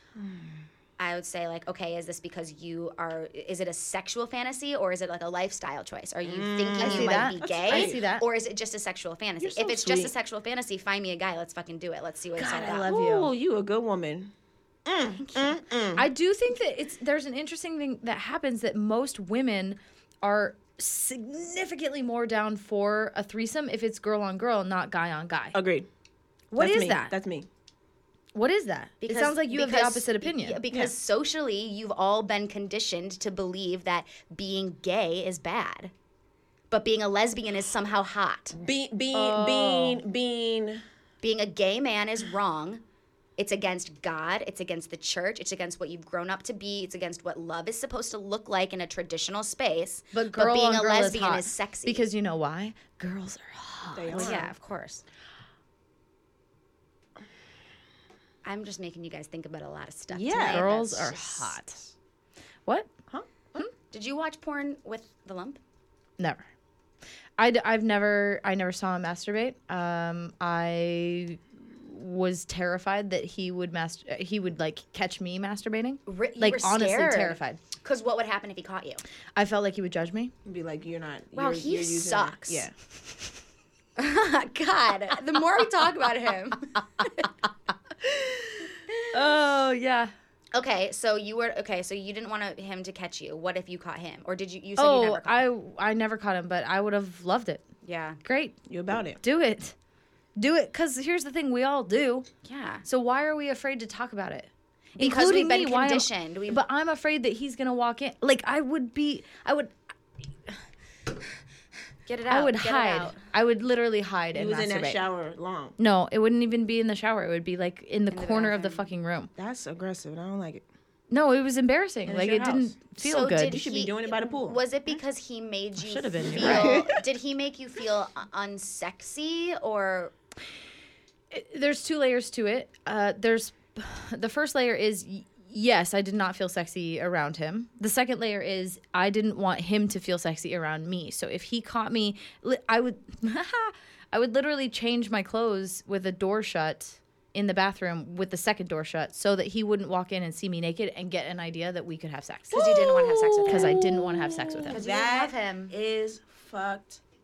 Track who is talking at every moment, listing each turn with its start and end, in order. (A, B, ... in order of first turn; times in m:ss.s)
0:00.2-0:00.6 A
0:01.0-0:12.9 B
0:06.2-0:08.0 A
0:06.8-0:08.3 C
0:09.4-0:10.1 A
0:12.4-0:13.3 C
0:12.7-0:14.3 A
0:14.8-0:16.1 A
0:15.2-0:15.6 B
0:15.9-0:25.6 C
0:25.5-0:25.9 A
0:26.5-0:27.1 C
0:26.6-0:27.5 A
0:28.3-0:30.6 C
0:29.0-0:35.9 B
0:36.7-0:38.6 B
0:38.5-0:40.8 A
0:39.1-0:40.0 C
0:41.2-0:42.8 B
0:43.4-0:52.1 B
0:50.1-0:54.4 C
0:53.9-0:54.5 A
0:54.1-0:55.0 B
0:58.4-1:01.6 B
1:00.1-1:01.8 C
1:00.2-1:00.6 A
1:03.1-1:03.6 A
1:03.9-1:05.6 B
1:06.2-1:06.4 C
1:07.4-1:17.6 C
1:16.0-1:19.0 B
1:19.3-1:20.3 C
1:20.4-1:22.7 A
1:21.3-1:22.7 B
1:24.0-1:27.3 B
1:28.0-1:30.1 C
1:30.5-1:35.4 B
1:34.8-1:37.6 C
1:37.8-1:38.2 B
1:38.2-1:38.6 C
1:38.7-1:39.2 A
1:39.2-1:39.7 C
1:40.4-1:42.3 C
1:42.4-1:42.8 B
1:42.8-1:49.7 C
1:45.0-1:46.6 B
1:52.1-1:53.2 B
1:52.3-1:55.0 C
1:54.3-1:55.8 A
1:55.8-1:59.3 C
1:58.1-1:58.8 B
1:59.4-2:00.6 A
2:01.1-2:03.6 C
2:02.0-2:02.7 A
2:03.0-2:10.1 B
2:03.4-2:04.6 A
2:05.8-2:07.0 C
2:06.2-2:06.9 A
2:11.3-2:32.6 C
2:32.5-2:33.8 B
2:32.5-2:37.0 A
2:33.4-2:34.8 C
2:34.7-2:35.7 B